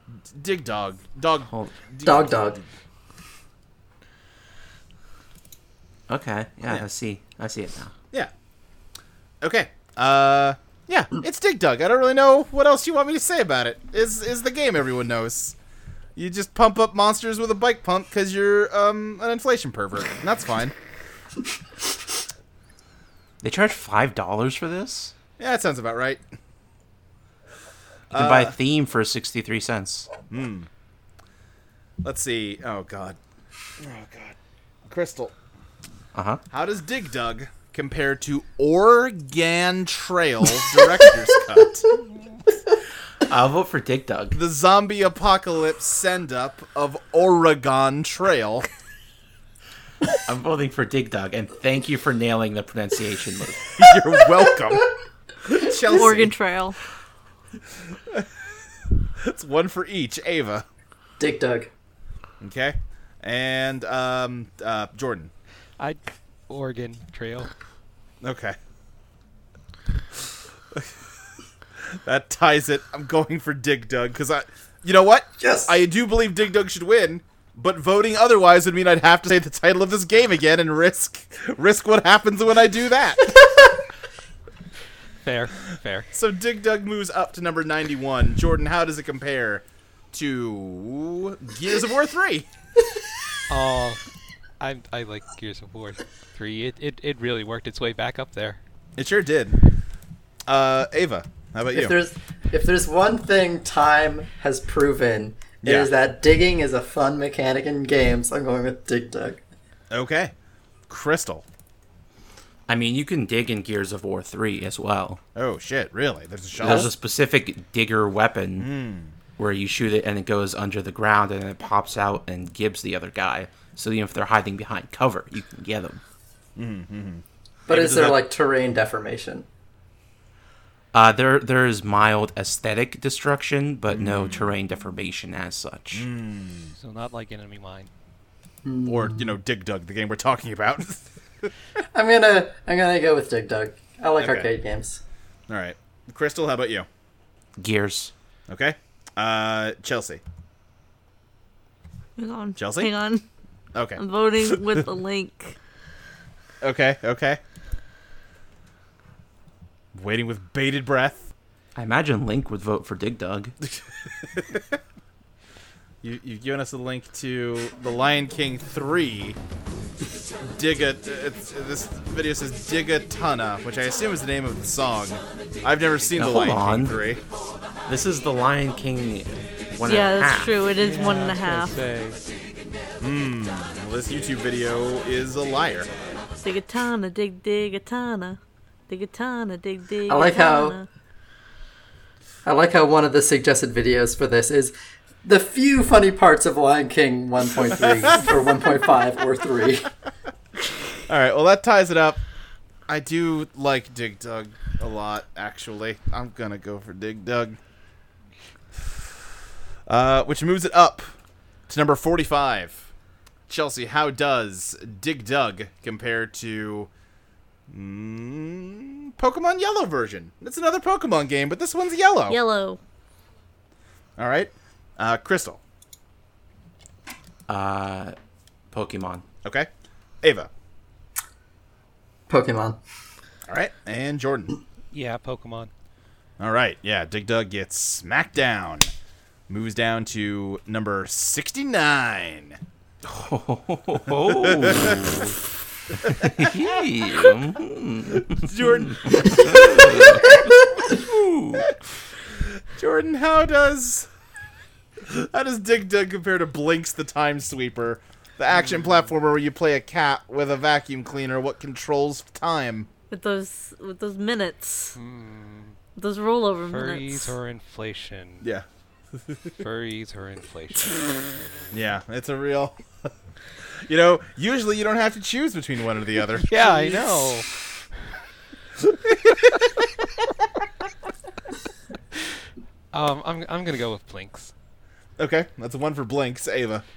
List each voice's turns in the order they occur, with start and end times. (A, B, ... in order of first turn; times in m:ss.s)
0:00.3-0:02.6 A
0:01.5-0:01.9 B
0:02.0-0:02.6 C
0:06.1-0:07.9 B
0:09.4-0:15.6 A
0:16.2-0:20.7 A
0:23.4-0:25.1 B
0:25.4-0:26.2 A
0:28.1-0:30.1 B
0:28.1-0:28.6 A
0:30.3-0:30.7 A
0:32.0-0:33.2 A
0:33.8-0:35.3 A
0:36.1-0:36.4 B
0:36.5-0:42.0 A
0:43.3-0:44.4 B
0:44.3-0:48.7 A
0:50.3-0:53.8 B
0:53.8-0:54.9 A
0:55.4-0:56.3 A
0:55.9-0:56.8 D
0:59.2-1:00.6 A
1:01.2-1:01.7 C
1:02.4-1:05.3 A
1:05.8-1:07.5 E
1:08.2-1:08.6 A
1:11.8-1:23.8 A
1:15.4-1:15.7 C
1:25.2-1:26.1 E
1:26.1-1:32.5 A
1:33.5-1:34.0 E
1:34.6-1:38.6 E
1:39.0-1:39.6 A
1:40.5-1:42.0 A
1:41.7-1:49.4 C
1:45.6-1:45.9 A
1:49.9-1:50.3 A
1:50.9-1:51.4 A
1:52.7-1:55.2 B
1:55.4-1:56.9 A
1:56.6-1:58.7 B
1:58.6-1:59.2 A
1:59.4-2:06.0 B
2:06.6-2:08.2 A
2:07.7-2:09.5 C
2:10.9-2:16.1 B
2:13.9-2:14.5 A
2:15.9-2:16.7 A
2:16.8-2:17.9 E
2:18.6-2:19.3 C
2:18.8-2:21.5 A
2:21.9-2:25.0 C
2:24.2-2:24.5 A
2:25.5-2:26.9 A
2:27.6-2:28.1 B
2:28.5-2:30.2 A
2:32.2-2:33.2 D
2:32.6-2:32.9 A
2:33.7-2:34.8 A
2:34.0-2:35.6 D
2:36.6-2:37.4 A
2:39.9-2:41.3 A
2:41.8-2:43.5 B
2:43.6-2:44.8 A
2:46.0-2:49.4 A
2:50.4-2:57.2 A
2:56.2-2:57.0 B
2:57.9-3:00.6 B
2:59.8-3:01.7 D
3:00.8-3:02.2 E
3:03.0-3:05.9 A
3:06.4-3:10.9 D
3:10.1-3:10.8 C
3:12.4-3:19.9 C
3:17.8-3:18.4 A
3:21.1-3:22.2 A
3:22.9-3:27.6 A
3:29.9-3:31.1 A
3:31.7-3:32.9 A
3:33.5-3:36.9 A
3:37.7-3:42.4 A
3:42.3-3:42.8 D
3:44.2-3:45.6 A
3:47.5-3:48.2 B
3:48.7-3:49.2 B
3:49.4-3:49.7 A
3:50.2-3:50.5 A
3:52.3-3:52.8 C
3:53.5-3:54.5 A
3:54.9-3:55.7 E
3:56.4-3:58.9 A
3:59.5-4:02.6 A
4:03.0-4:05.4 B
4:04.2-4:05.2 A
4:06.0-4:06.9 A
4:06.0-4:11.8 B
4:08.2-4:10.4 A
4:12.4-4:14.1 A
4:15.0-4:22.9 A
4:18.7-4:19.0 E
4:23.1-4:25.0 D
4:25.0-4:25.8 E
4:26.0-4:27.4 D
4:26.7-4:28.4 E
4:29.6-4:31.4 E
4:31.7-4:33.1 A
4:33.8-4:37.3 A
4:36.4-4:37.5 E
4:38.9-4:39.9 A
4:42.9-4:44.5 E
4:45.2-4:46.8 A